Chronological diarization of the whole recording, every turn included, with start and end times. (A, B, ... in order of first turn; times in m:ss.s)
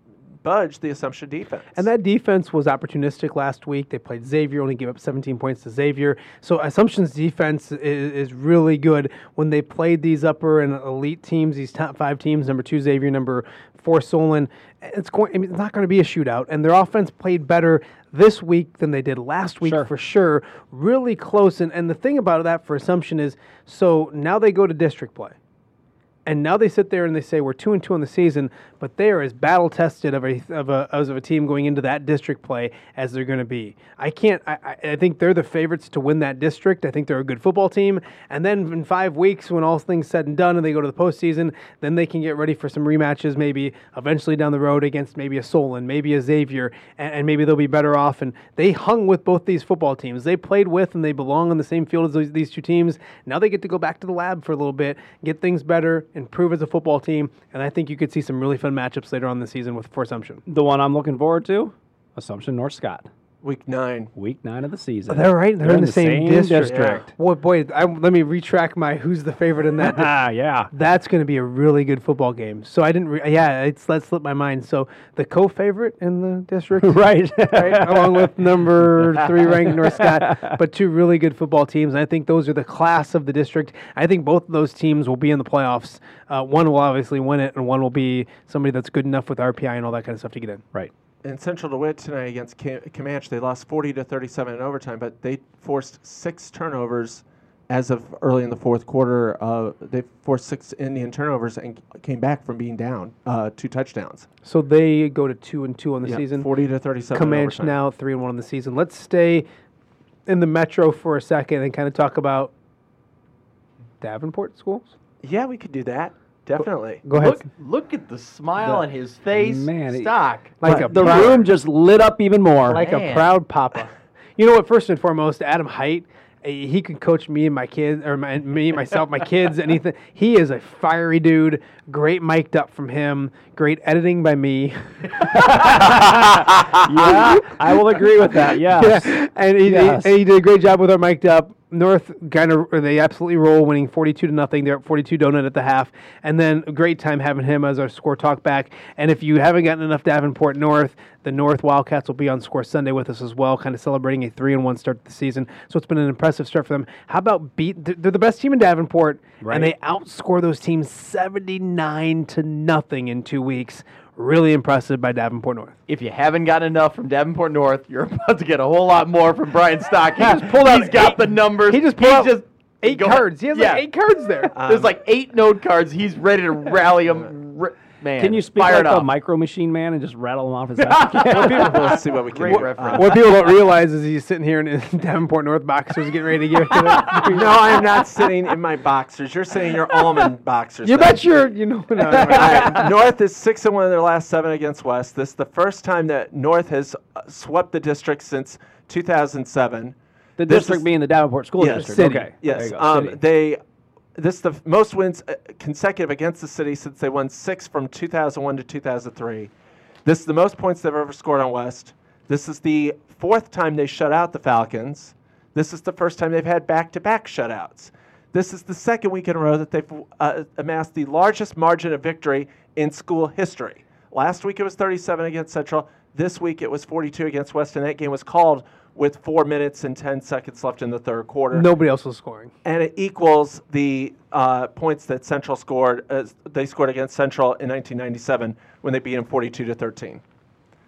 0:00.4-0:01.9 A
0:01.8-0:25.4 B
0:19.6-0:19.9 C
0:26.3-1:00.4 B
1:00.5-1:03.1 C
1:03.4-1:04.1 A
1:04.2-1:07.1 C
1:05.1-1:10.1 B
1:06.6-1:07.0 A
1:09.8-1:10.7 C
1:10.7-1:30.6 B
1:16.8-1:20.6 C
1:31.2-1:44.3 A
1:44.4-1:46.5 B
1:46.0-1:47.7 A
1:47.1-1:49.5 B
1:50.3-1:52.5 B
1:54.0-1:54.9 B
1:55.2-1:57.0 A
1:57.0-1:57.4 B
1:57.2-2:00.6 D
1:59.3-2:02.8 C
2:00.6-2:01.4 B
2:00.6-2:01.4 A
2:02.7-2:15.7 B
2:02.7-2:03.3 D
2:15.2-2:20.1 C
2:17.0-2:45.8 B
2:39.4-2:39.7 C
2:45.9-2:53.8 D
2:50.2-2:54.5 B
2:54.5-2:54.9 A
2:54.6-2:59.1 D
2:58.2-3:01.7 C
3:00.9-3:03.2 D
3:01.3-3:03.2 A
3:01.4-3:07.9 B
3:07.1-3:11.2 A
3:10.8-3:12.9 B
3:12.0-3:20.9 A
3:20.4-3:23.2 C
3:21.6-3:23.6 A
3:21.7-3:22.3 B
3:24.2-3:29.5 A
3:30.0-3:51.7 A
3:51.5-3:52.5 B
3:52.6-4:00.2 A